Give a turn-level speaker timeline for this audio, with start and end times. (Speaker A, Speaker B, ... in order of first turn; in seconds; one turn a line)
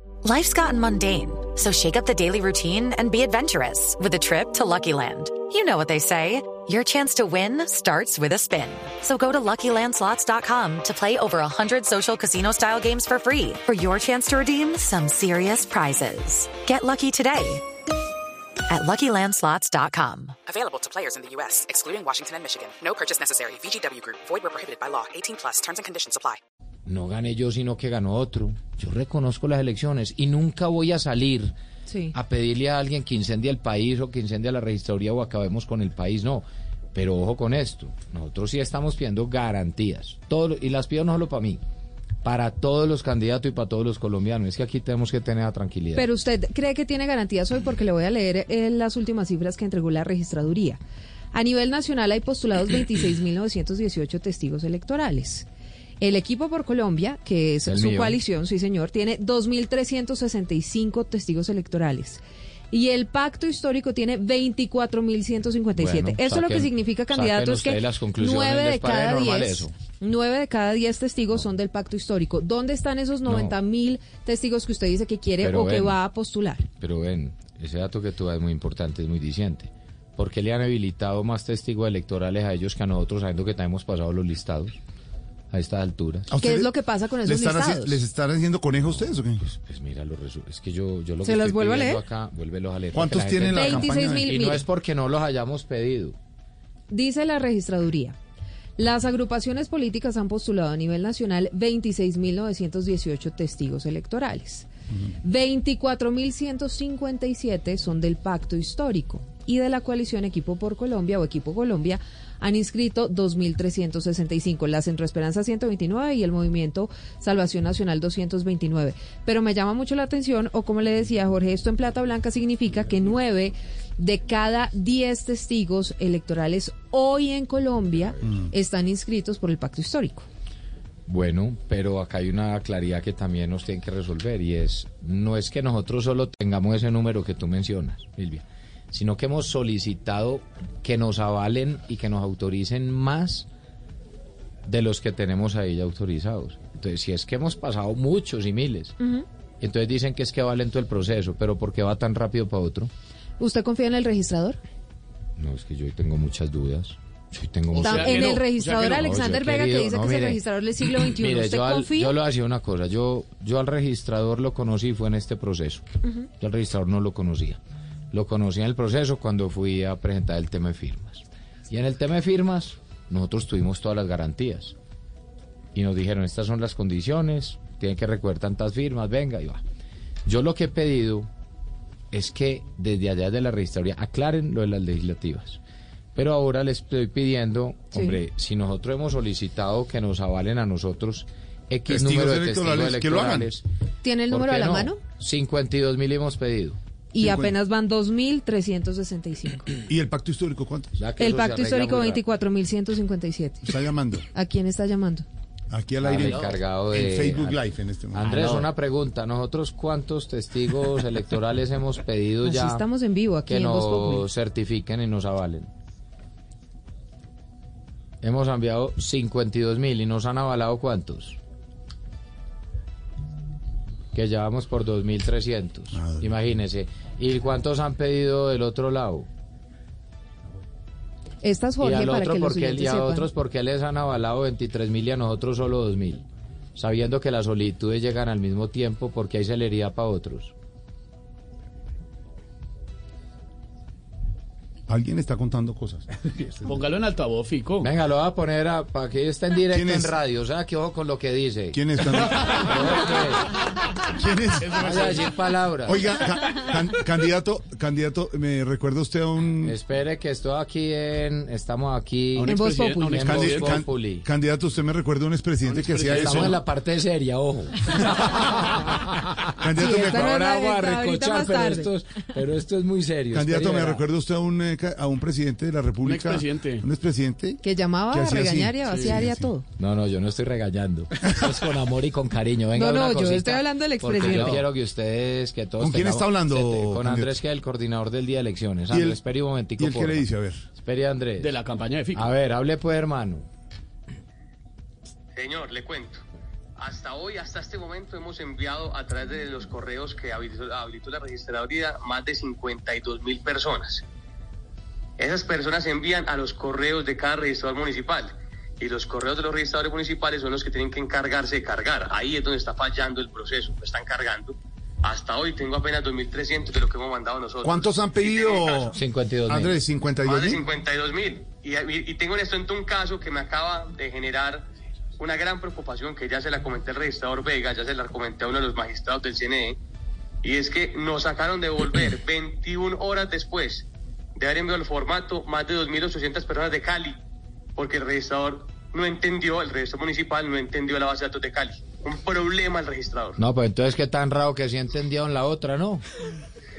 Speaker A: 0.2-17.6
Speaker A: 18.7-20.4
Speaker B: 20.5-26.4
Speaker C: 26.9-31.5
Speaker D: 31.9-32.1
Speaker C: 32.1-41.6
Speaker C: 42.2-46.1
Speaker D: 46.0-50.8
Speaker D: 51.3-55.5
Speaker D: 56.0-76.7
Speaker C: 57.6-58.2
Speaker C: 65.8-69.7
Speaker C: 73.3-73.6
Speaker C: 75.4-76.0
Speaker C: 76.8-84.8
Speaker C: 85.5-86.3
Speaker E: 86.3-86.7
Speaker D: 86.4-88.0
Speaker E: 87.2-89.4
Speaker C: 88.9-96.2
Speaker D: 91.2-92.0
Speaker E: 92.9-94.3
Speaker D: 93.5-94.7
Speaker D: 96.9-98.2
Speaker D: 98.8-104.7
Speaker D: 105.2-130.3
Speaker C: 131.1-143.5
Speaker C: 144.7-149.0
Speaker D: 149.0-149.2
Speaker C: 149.6-152.9
Speaker D: 153.4-154.6
Speaker C: 155.4-160.4
Speaker F: 157.7-159.1
Speaker D: 157.8-162.2
Speaker C: 161.0-165.8
Speaker C: 166.4-167.6
Speaker C: 168.1-174.8
Speaker C: 175.7-179.6
Speaker C: 180.2-181.3
Speaker C: 182.1-185.6
Speaker C: 186.2-193.6
Speaker D: 187.9-188.2
Speaker E: 191.9-193.5
Speaker D: 194.0-195.0
Speaker C: 194.3-196.8
Speaker D: 197.1-199.7
Speaker E: 197.2-197.6
Speaker E: 199.9-201.0
Speaker C: 201.0-202.2
Speaker D: 201.2-203.7
Speaker E: 203.7-204.2
Speaker D: 204.3-205.3
Speaker E: 205.7-208.7
Speaker C: 206.0-207.6
Speaker C: 208.1-212.9
Speaker D: 212.4-214.3
Speaker C: 213.5-215.7
Speaker C: 218.2-221.4
Speaker C: 224.1-229.3
Speaker D: 231.4-233.3
Speaker C: 231.8-236.2
Speaker C: 236.8-240.5
Speaker E: 244.9-246.1
Speaker F: 246.3-247.9
Speaker C: 247.8-251.8
Speaker E: 249.7-250.1
Speaker E: 251.7-252.7
Speaker C: 252.4-253.5
Speaker E: 254.2-254.9
Speaker F: 254.6-255.4
Speaker C: 254.7-256.1
Speaker E: 255.9-259.8
Speaker C: 259.6-264.3
Speaker F: 262.4-263.7
Speaker D: 262.4-263.1
Speaker E: 263.2-266.6
Speaker F: 265.6-266.5
Speaker C: 266.1-274.0
Speaker E: 269.6-270.2
Speaker D: 269.8-271.9
Speaker E: 273.3-277.6
Speaker F: 276.0-276.9
Speaker D: 277.6-279.6
Speaker E: 278.1-279.5
Speaker F: 278.9-279.2
Speaker C: 279.8-291.6
Speaker D: 282.8-284.6
Speaker E: 284.3-284.6
Speaker E: 285.8-287.4
Speaker E: 288.9-289.2
Speaker E: 289.8-290.6
Speaker F: 291.4-292.3
Speaker C: 292.1-293.5
Speaker G: 295.4-296.2
Speaker G: 296.8-304.0
Speaker G: 305.2-319.0
Speaker E: 317.6-319.0
Speaker C: 319.0-319.8
Speaker E: 319.5-320.6
Speaker G: 320.2-324.6
Speaker G: 325.2-329.8
Speaker G: 330.4-337.2
Speaker G: 337.8-343.4
Speaker C: 343.4-346.0